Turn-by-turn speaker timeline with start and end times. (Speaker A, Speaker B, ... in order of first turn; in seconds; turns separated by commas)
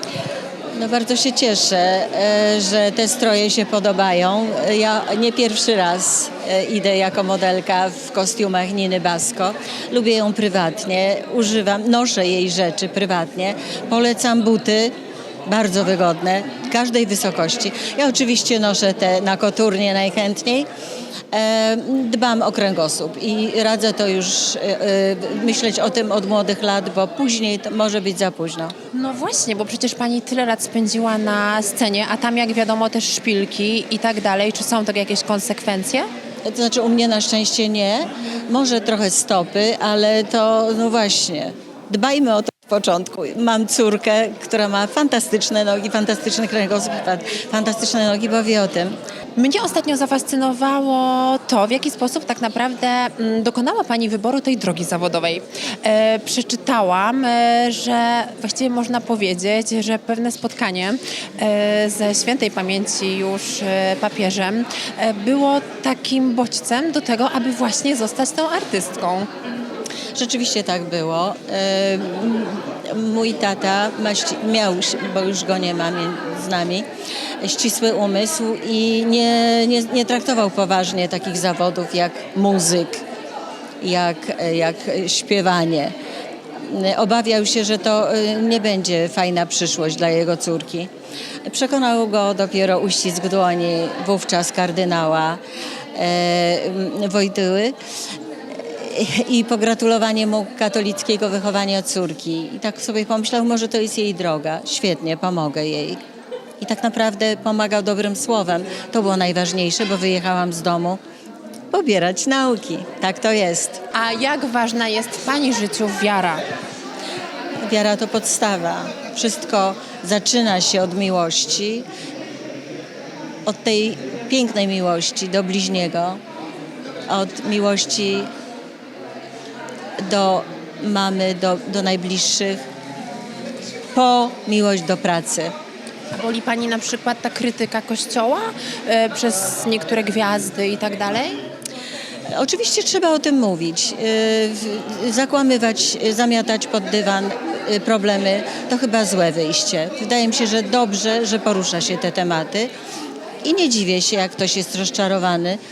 Speaker A: 0.8-14.9, Speaker A: 15.5-20.7, Speaker A: 21.3-28.7, Speaker B: 28.9-36.1, Speaker A: 36.5-48.9, Speaker B: 49.4-69.3, Speaker A: 70.1-76.9, Speaker A: 77.4-83.0, Speaker A: 83.8-85.9, Speaker A: 86.6-90.9, Speaker A: 91.4-95.4, Speaker A: 95.9-97.8, Speaker A: 98.7-106.0, Speaker A: 106.6-111.0, Speaker A: 111.7-113.8, Speaker B: 113.9-116.4, Speaker A: 117.6-121.9, Speaker A: 123.5-126.2, Speaker A: 127.1-128.3, Speaker A: 130.0-132.6, Speaker A: 133.9-135.5, Speaker B: 136.1-141.4, Speaker A: 142.3-152.7, Speaker A: 153.4-155.6